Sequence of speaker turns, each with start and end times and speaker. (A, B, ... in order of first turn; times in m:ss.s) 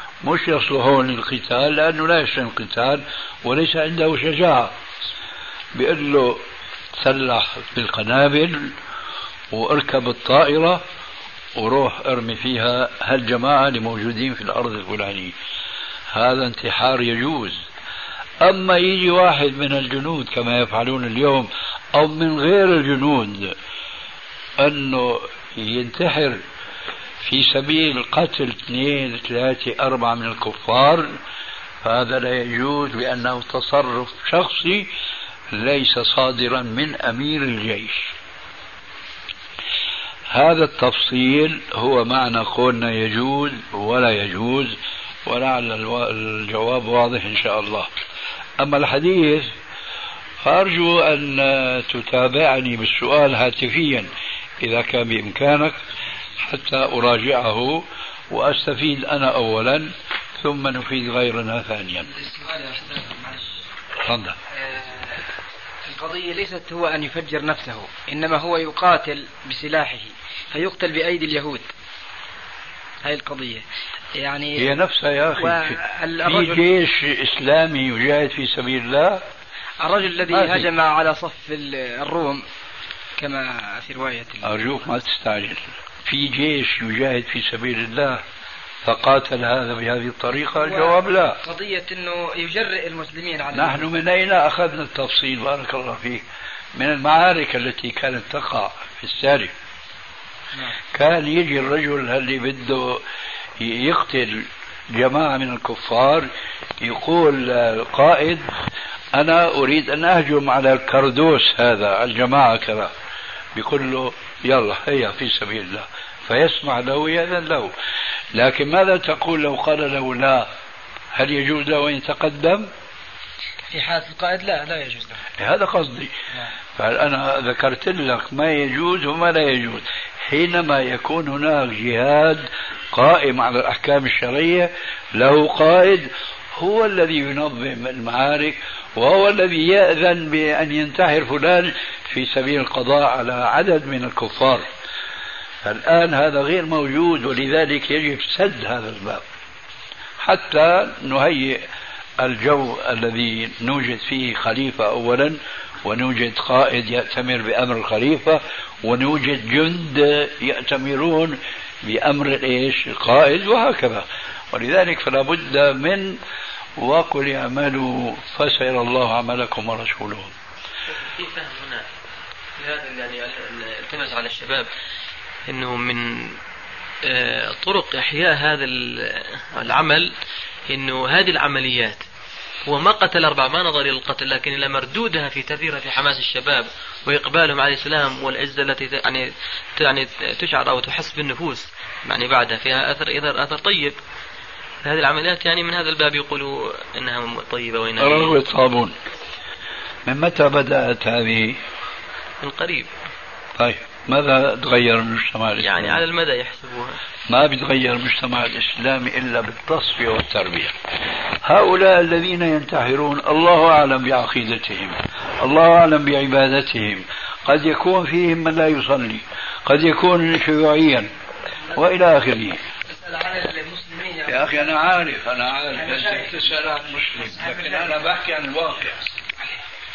0:00.2-0:04.7 A
0:05.7-0:06.4 A
0:07.0-0:08.7 A
0:09.5-0:10.8 A
0:11.5-0:15.3 A
0:16.1-0:17.6 A
0:18.4-0:23.5 A
0:24.6-0:26.4 A
0:27.2-0:31.1 A
0:31.8-0:34.9 A
0:35.5-0:38.1 A
0:40.3-0:47.9 A
0:48.6-0:49.5 A
0:50.4-0:54.1 A
0:54.6-0:55.8 A
0:56.4-1:02.1 A
1:02.1-1:03.6 B
1:04.0-1:04.4 A
1:04.5-1:05.2 B
1:05.8-1:11.7 B
1:13.0-1:14.8 B
1:14.6-1:19.2 A
1:15.4-1:16.6 B
1:19.8-1:22.4 B
1:20.3-1:20.7 A
1:23.2-1:24.9 B
1:24.4-1:28.2 A
1:28.8-1:31.4 A
1:30.6-1:33.9 B
1:33.5-1:36.2 A
1:36.8-1:39.5 A
1:40.9-1:43.0 A
1:43.6-1:46.3 A
1:46.8-1:48.4 A
1:49.1-1:52.9 A
1:53.5-1:57.7 A
1:58.3-2:00.4 A
2:01.1-2:02.7 A
2:03.7-2:05.2 B
2:05.4-2:06.1 A
2:06.8-2:24.6 A
2:25.6-2:29.2 A
2:30.2-2:31.6 A
2:32.2-2:46.2 A
2:46.8-2:50.3 A
2:50.9-2:51.8 C
2:52.6-2:54.7 C
2:55.5-2:56.4 C
2:57.0-3:00.1 C
3:00.7-3:02.0 C
3:02.6-3:14.0 C
3:14.8-3:18.4 C
3:18.0-3:18.9 A
3:20.0-3:21.6 A
3:22.4-3:22.9 C
3:23.6-3:26.0 A
3:25.6-3:27.0 C
3:27.3-3:30.7 A
3:31.4-3:41.1 A
3:41.7-3:42.6 A
3:42.9-3:44.7 B
3:44.3-3:49.0 A
3:45.7-3:46.4 B
3:47.4-3:47.9 B